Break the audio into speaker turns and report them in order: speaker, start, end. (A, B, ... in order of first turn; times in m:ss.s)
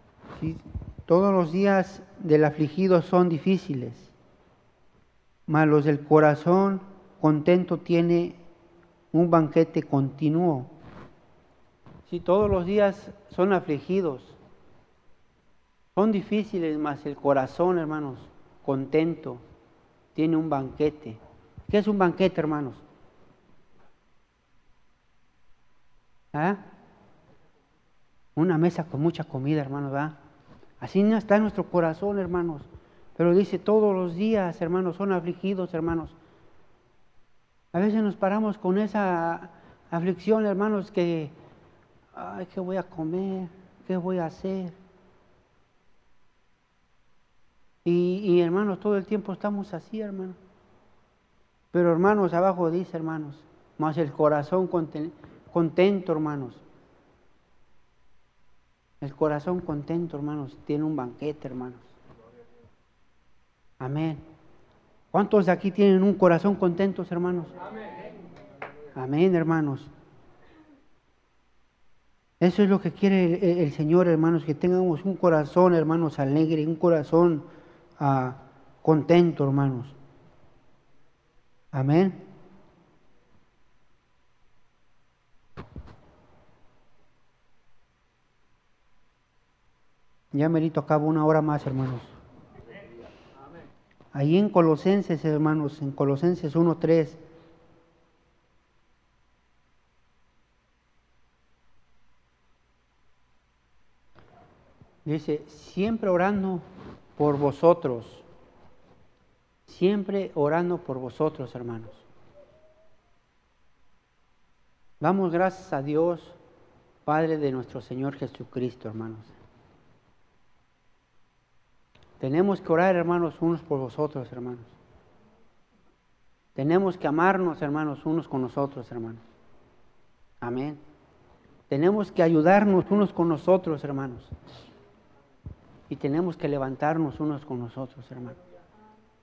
0:00.4-0:04.1 A
0:05.5-0:08.4 A
0:09.1-0:10.7 A
0:12.1-0:14.4 A
0:16.0-0:19.4 A
0:20.1-0:22.8 A
0:26.3-0:26.6 A
0:28.4-0:30.2 A
0:30.8-0:36.2 A
0:37.7-0:41.3 A
0:42.1-0:44.8 A
0:47.8-0:50.4 A
0:51.7-0:56.6 A
0:59.0-1:02.0 A
1:03.8-1:04.2 A
1:05.1-1:07.5 A
1:08.9-1:09.9 A
1:12.4-1:17.4 A
1:18.0-1:19.9 A
1:21.7-1:22.2 A
1:30.3-1:32.2 A
1:34.1-1:37.2 A
1:45.0-1:46.6 A
1:47.2-1:48.2 A
1:49.7-1:52.0 A
1:55.0-1:56.4 A
1:57.0-1:59.3 A
2:02.2-2:04.8 A
2:06.6-2:09.2 A
2:10.4-2:10.8 A
2:11.7-2:14.3 A
2:15.9-2:18.4 A